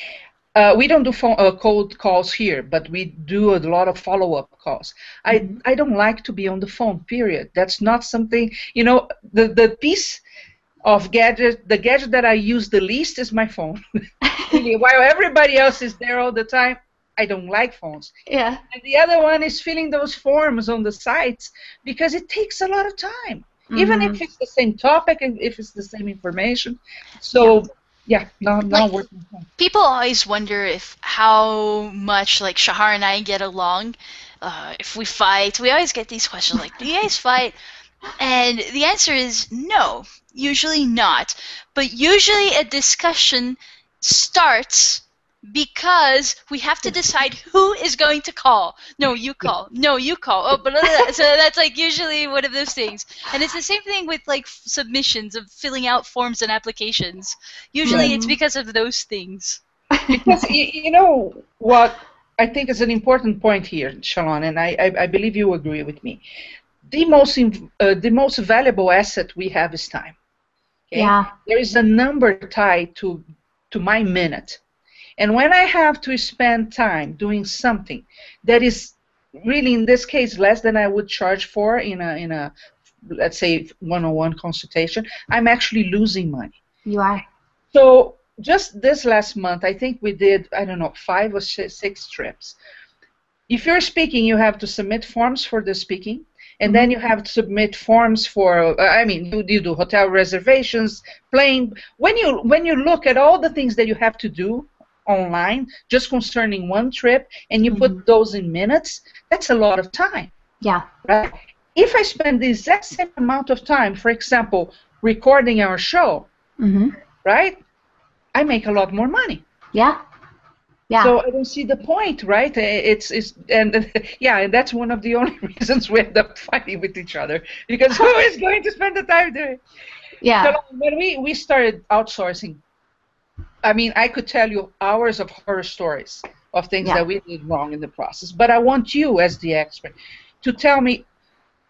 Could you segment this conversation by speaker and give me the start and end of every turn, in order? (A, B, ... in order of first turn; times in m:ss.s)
0:00.5-0:10.2 A
0:05.3-0:05.6 B
0:10.8-0:13.8 A
0:14.2-0:14.6 B
0:14.5-0:18.1 A
0:18.3-0:18.6 B
0:18.7-0:29.5 A
0:23.7-0:24.2 B
0:28.7-0:29.0 C
0:29.6-0:37.5 C
0:38.2-0:59.6 C
0:57.8-0:58.4 B
0:57.8-0:58.1 A
0:59.9-1:00.5 B
1:00.1-1:06.2 A
1:06.9-1:10.2 A
1:10.9-1:14.6 A
1:10.9-1:11.3 B
1:15.2-1:22.5 A
1:23.0-1:26.6 A
1:26.8-1:27.2 B
1:27.7-1:32.6 A
1:33.5-1:50.3 A
1:47.7-1:48.0 B
1:51.0-1:56.3 A
1:56.6-1:56.9 B
1:57.2-1:57.6 A
1:58.3-1:59.4 A
2:00.9-2:01.1 B
2:01.0-2:09.6 A
2:10.2-2:10.6 B
2:10.4-2:12.6 A
2:13.6-2:21.0 A